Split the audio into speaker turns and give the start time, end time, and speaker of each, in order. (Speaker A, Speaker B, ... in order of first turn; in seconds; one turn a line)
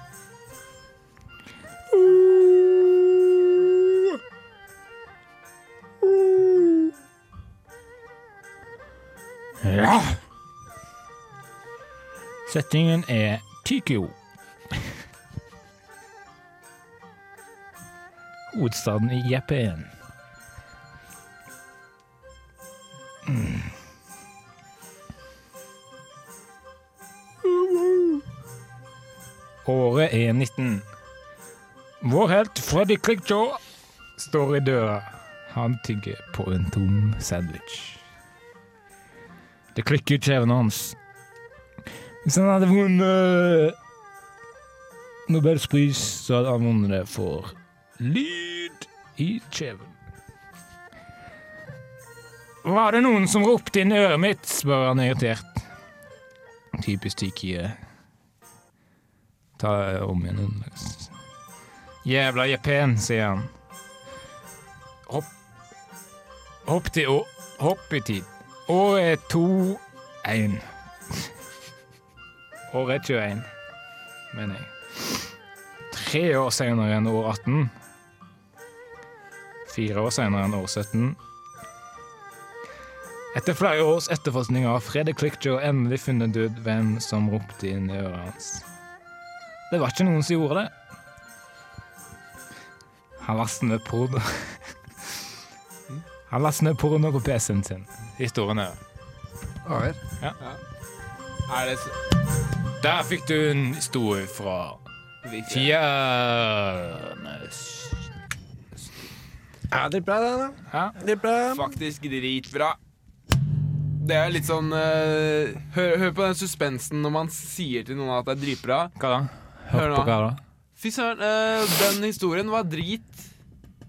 Speaker A: 1.9-3.2
Speaker A: 9.6-10.2
Speaker A: 12.4-14.2
Speaker A: 18.5-19.9
Speaker A: 23.2-23.7
Speaker A: 27.8-28.2
Speaker A: 29.6-30.8
Speaker A: 32.0-33.6
Speaker A: 34.2-38.0
Speaker A: 39.7-41.0
Speaker A: 42.2-43.8
Speaker A: 45.3-49.9
Speaker A: 52.6-55.6
Speaker A: 56.8-57.8
Speaker A: 59.6-61.1
Speaker A: 62.0-63.5
Speaker A: 66.7-71.3
Speaker A: 72.7-73.5
Speaker A: 74.3-75.3
Speaker A: 75.9-77.7
Speaker A: 79.7-81.2
Speaker A: 83.3-88.6
Speaker A: 89.7-90.7
Speaker A: 93.2-95.2
Speaker A: 96.3-98.8
Speaker B: 99.6-100.0
Speaker C: 101.5-101.9
Speaker A: 102.8-104.8
Speaker C: 105.2-105.7
Speaker A: 105.5-108.0
Speaker B: 109.7-111.7
Speaker A: 110.7-111.0
Speaker C: 111.5-112.8
Speaker C: 114.0-118.9
Speaker A: 119.0-120.4
Speaker C: 119.7-120.2
Speaker C: 120.8-123.3